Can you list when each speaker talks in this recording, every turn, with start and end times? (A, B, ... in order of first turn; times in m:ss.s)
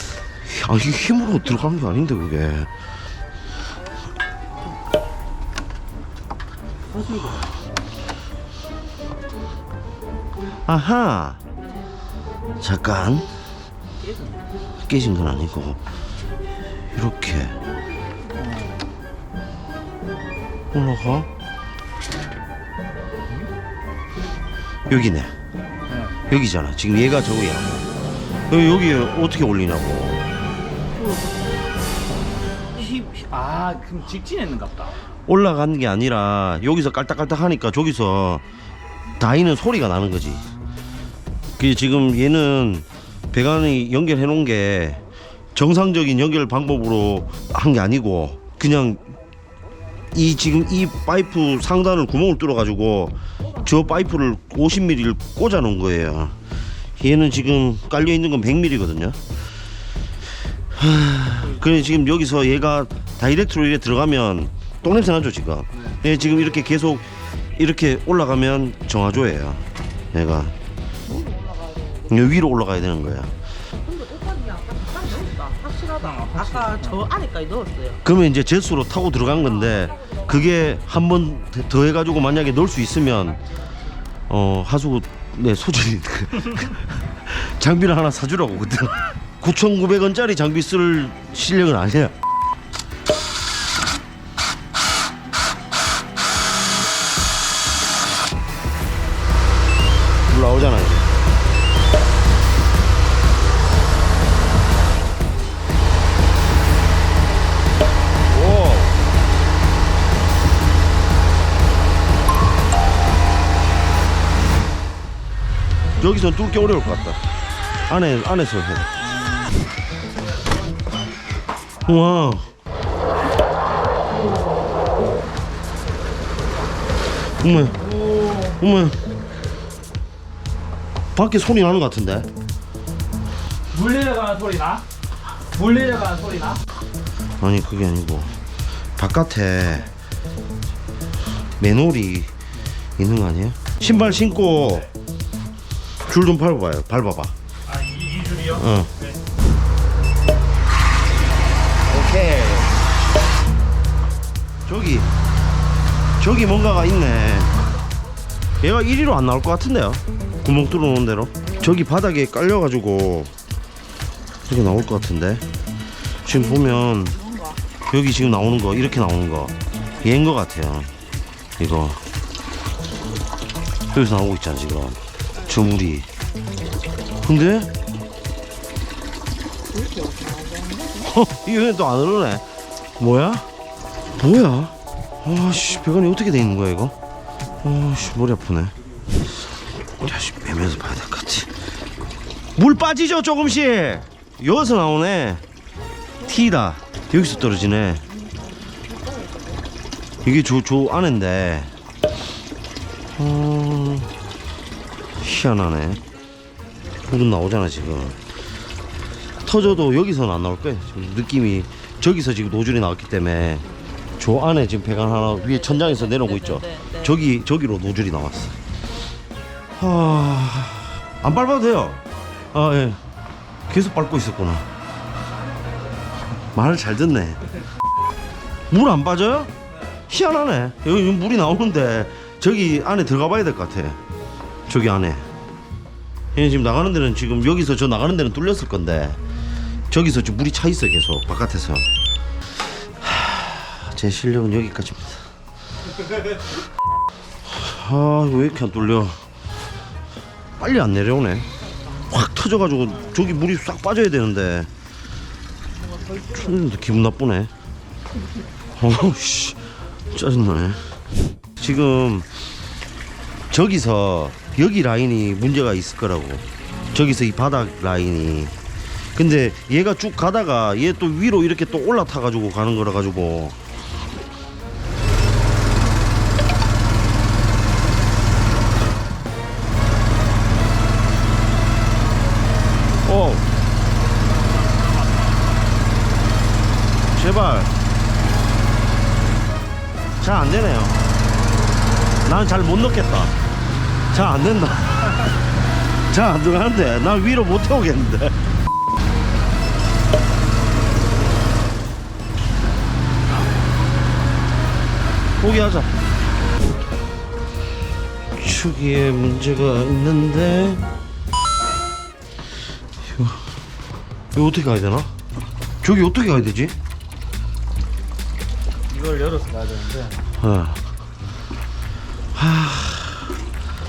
0:00.4-0:02.7 A
0:06.9-0:07.5 B
0:10.7-0:11.4 A
0:12.6-0:13.3 A
0:14.0-0:14.4 B
0:14.9-0:15.8 A
0:16.9-0:17.6 A
0:18.4-0:18.8 B
0:20.7-0:21.3 A
0:24.9-0:25.3 A
0:25.9-0:26.2 B
0:26.3-0:27.9 A
0:28.5-0:30.2 A
0:32.8-0:35.0 B
0:35.3-0:38.4 A
0:39.2-0:40.5 A
0:41.6-0:45.0 A
0:45.6-0:49.0 A
0:50.1-0:56.4 A
0:57.0-0:59.2 A
1:00.7-1:10.6 A
1:05.7-1:06.0 B
1:11.1-1:12.4 C
1:12.1-1:13.3 A
1:13.8-1:18.0 C
1:16.0-1:17.0 B
1:18.0-1:23.4 A
1:19.4-1:20.7 C
1:24.3-1:32.2 A
1:40.3-1:41.1 A
1:48.3-1:49.0 A
1:56.0-1:57.2 A
1:57.9-1:58.9 A
1:59.0-1:59.4 B
2:01.8-2:02.5 A
2:07.4-2:07.8 A
2:07.8-2:08.6 B
2:08.6-2:09.0 A
2:11.2-2:12.3 A
2:13.7-2:14.8 B
2:15.5-2:16.6 B
2:17.4-2:18.3 A
2:19.0-2:19.9 A
2:21.6-2:22.3 A
2:23.0-2:24.9 A
2:23.8-2:24.9 B
2:26.1-2:27.3 A
2:27.7-2:29.2 B
2:28.6-2:28.9 A
2:31.9-2:32.7 A
2:34.7-2:35.1 A
2:36.2-2:37.5 A
2:38.6-2:43.3 A
2:44.5-2:45.4 A
2:46.2-2:47.2 A
2:46.3-2:47.6 C
2:47.9-2:50.9 A
2:51.6-2:52.0 A
2:53.9-2:56.1 A
2:57.2-2:57.7 A
2:59.7-3:01.1 C
3:01.1-3:02.4 A
3:03.0-3:03.5 A
3:04.2-3:07.0 A
3:07.6-3:08.7 A
3:10.0-3:11.6 A
3:12.6-3:15.4 A
3:16.2-3:18.0 A
3:17.0-3:19.6 C
3:20.2-3:21.7 A
3:23.1-3:24.1 A
3:25.2-3:26.0 A
3:27.1-3:28.2 A
3:29.4-3:33.7 A
3:34.2-3:38.6 A
3:35.2-3:37.2 C
3:39.8-3:43.0 A
3:43.7-3:44.6 A
3:46.5-3:47.4 A
3:48.7-3:49.5 A
3:50.1-3:54.0 A
3:54.7-3:55.2 A
3:56.4-3:59.2 A
3:59.9-4:01.9 A
4:03.0-4:05.3 A
4:07.5-4:09.2 A
4:10.6-4:11.5 A
4:12.1-4:14.7 A
4:15.7-4:16.7 C
4:16.3-4:17.5 A
4:18.8-4:20.8 A
4:21.6-4:22.3 A
4:23.5-4:28.6 A
4:29.1-4:33.6 A
4:43.0-4:43.5 A
4:47.2-4:47.7 A
4:50.2-4:51.0 A
4:52.2-4:53.3 A
4:54.1-4:55.1 A
4:56.1-4:58.4 A
5:05.4-5:05.9 A
5:08.3-5:10.8 A
5:13.0-5:13.4 A
5:14.3-5:15.1 A
5:15.8-5:16.8 A
5:18.9-5:20.3 B
5:20.4-5:20.8 A
5:22.3-5:23.3 A